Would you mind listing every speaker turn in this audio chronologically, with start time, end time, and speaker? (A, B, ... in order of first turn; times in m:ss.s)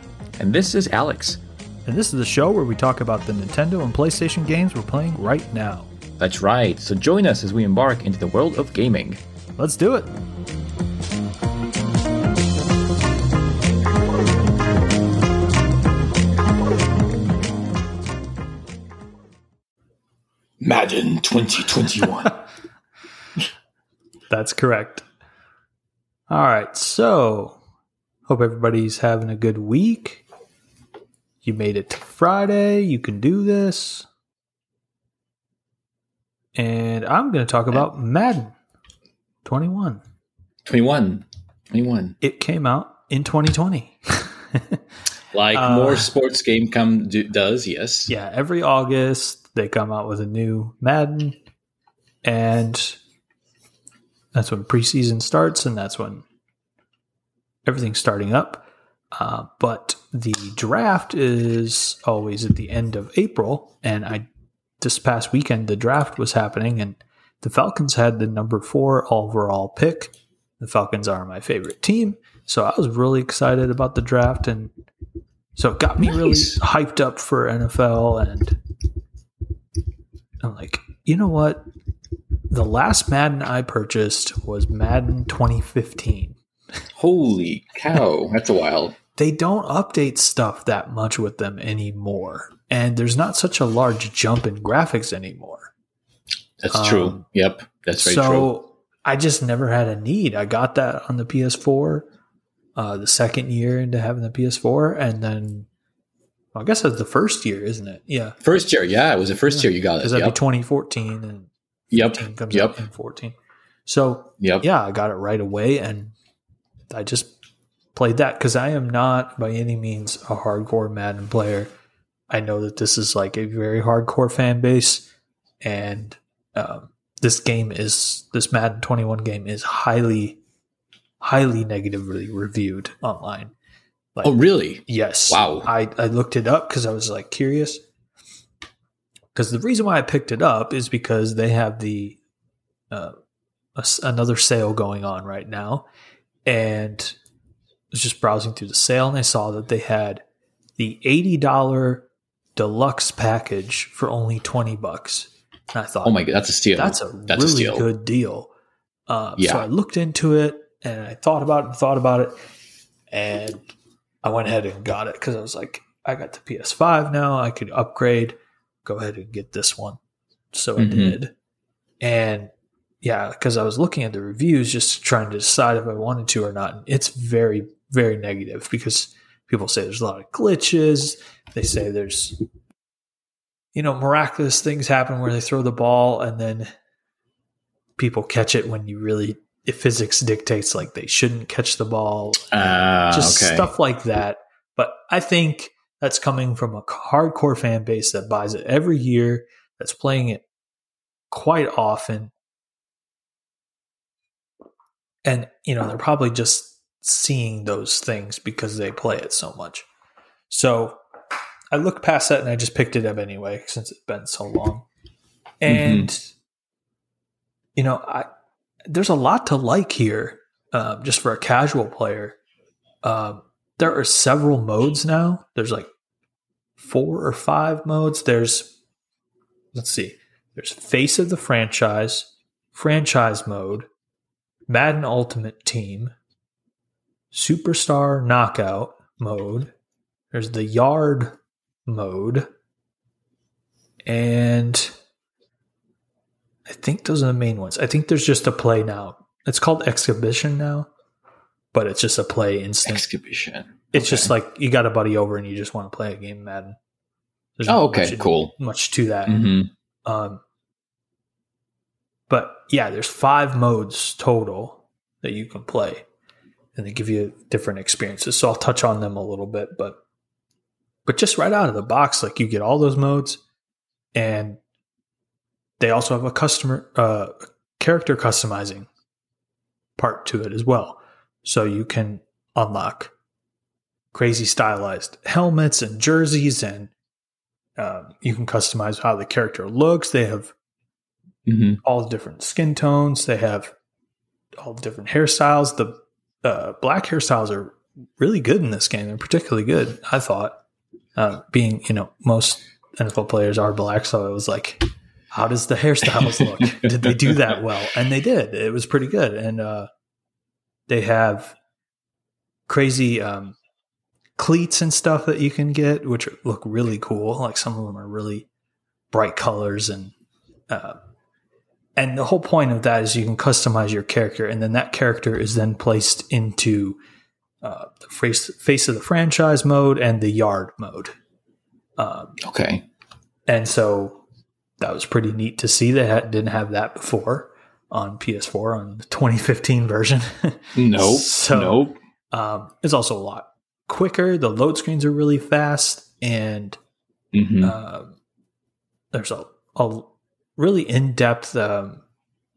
0:00.4-0:01.4 A
0:01.8-0:05.9 B
0:06.2-0:09.2 A
0:09.6-0:10.1 B
0:20.6-0:22.4 A
0:24.3-0:25.0 B
0:26.3-0:27.6 B
0:28.3-0:30.2 B
0:31.4-0:34.1 B
0:36.5-0:38.5 B
0:39.4-0:40.0 B
0:40.6-0:42.2 A
0:42.2-0:44.8 B
0:45.3-0:48.1 A
0:45.5-0:46.1 B
0:48.1-0:51.4 B
0:52.2-0:53.0 B
0:54.3-0:56.2 B
0:57.6-1:04.2 B
1:04.8-1:14.7 B
1:15.6-1:18.6 B
1:16.0-1:16.5 A
1:20.4-1:21.7 B
1:22.5-1:26.4 B
1:27.0-1:29.0 A
1:29.2-1:35.7 B
1:36.6-1:38.5 A
1:36.7-1:37.2 B
1:38.0-1:42.1 B
1:42.8-1:45.7 B
1:46.5-1:48.4 B
1:48.4-1:50.4 A
1:49.5-1:56.1 B
1:51.9-1:52.8 A
1:56.9-1:57.3 B
1:57.9-2:01.7 B
2:02.3-2:05.1 B
2:05.6-2:10.4 B
2:11.2-2:13.5 B
2:14.1-2:17.8 B
2:14.2-2:15.7 A
2:19.3-2:22.2 B
2:23.8-2:25.8 B
2:26.4-2:27.2 B
2:27.9-2:30.2 B
2:30.8-2:38.5 B
2:36.0-2:37.8 A
2:39.1-2:42.4 B
2:39.4-2:39.6 A
2:43.1-2:43.7 B
2:44.2-2:50.0 B
2:50.5-2:51.3 B
2:50.8-2:51.2 A
2:52.0-2:52.5 B
2:53.0-3:02.4 B
3:03.7-3:06.7 B
3:08.0-3:12.5 B
3:12.5-3:13.7 A
3:13.1-3:20.4 B
3:21.3-3:22.3 B
3:25.2-3:29.8 B
3:30.5-3:31.0 B
3:31.7-3:34.9 B
3:35.6-3:36.3 B
3:35.7-3:36.1 A
3:37.8-3:38.3 B
3:38.9-3:42.4 B
3:43.0-3:45.9 B
3:46.8-3:48.7 B
3:49.7-3:53.9 B
3:54.7-3:56.1 B
3:57.3-3:59.7 B
4:00.3-4:02.5 B
4:04.0-4:04.9 B
4:06.7-4:10.9 B
4:11.7-4:13.0 B
4:12.8-4:14.3 A
4:13.9-4:16.8 B
4:17.6-4:19.4 B
4:17.7-4:18.5 A
4:19.2-4:19.7 A
4:20.0-4:20.4 B
4:22.3-4:26.0 B
4:26.8-4:30.0 B
4:31.0-4:33.4 B
4:34.1-4:34.6 B
4:35.8-4:38.9 B
4:40.0-4:43.1 B
4:44.1-4:46.9 B
4:47.8-4:50.5 B
4:51.4-4:51.8 A
4:51.8-4:53.7 B
4:54.6-5:00.6 B
5:01.2-5:09.9 B
5:06.2-5:07.1 A
5:10.9-5:11.6 B
5:12.7-5:13.6 B
5:14.4-5:18.5 B
5:19.1-5:20.1 B
5:20.7-5:21.0 B
5:22.0-5:27.0 B
5:27.6-5:31.1 B
5:32.0-5:32.4 B
5:32.4-5:32.8 A
5:33.5-5:34.2 B
5:34.8-5:46.8 B
5:40.8-5:42.0 A
5:47.3-5:47.7 A
5:47.6-5:48.2 B
5:49.1-5:52.0 B